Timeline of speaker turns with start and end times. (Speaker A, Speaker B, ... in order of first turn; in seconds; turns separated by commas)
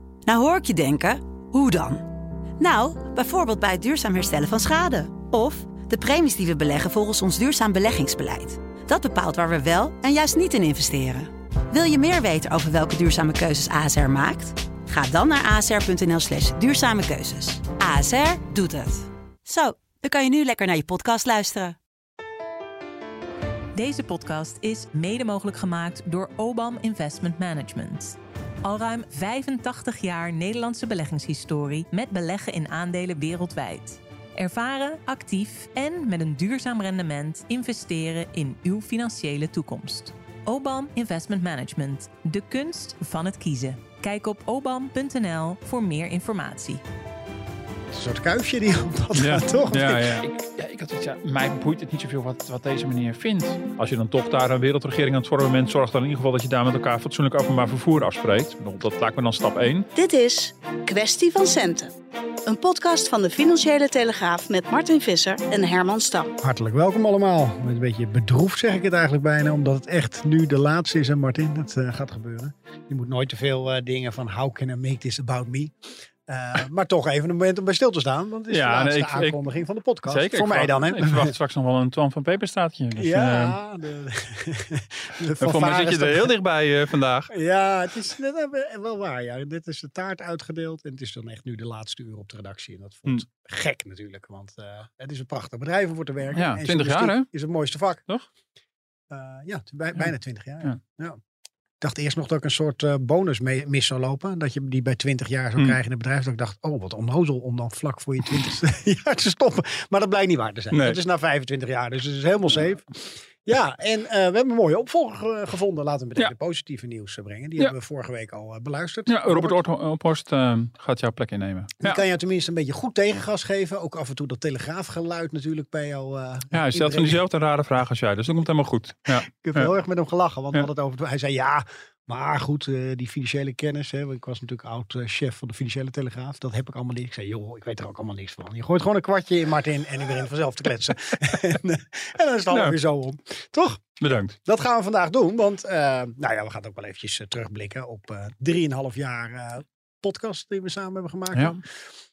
Speaker A: 0.3-2.1, Speaker A: 2.6-21.8, Speaker B: 23.8-46.8, Speaker C: 47.9-50.2, Speaker D: 49.2-59.9, Speaker E: 60.0-61.9, Speaker E: 62.5-66.3, Speaker C: 66.4-81.3, Speaker D: 78.5-79.4, Speaker D: 80.1-83.6, Speaker C: 83.0-86.3, Speaker D: 85.4-87.3, Speaker C: 87.3-98.0, Speaker D: 96.3-97.3, Speaker C: 99.1-101.2, Speaker C: 101.8-112.9, Speaker D: 110.7-111.0, Speaker C: 113.4-119.6, Speaker D: 119.1-122.0, Speaker C: 121.8-127.2, Speaker D: 126.5-129.7, Speaker C: 129.2-151.7, Speaker D: 142.5-142.8, Speaker D: 144.0-144.4, Speaker D: 151.3-151.6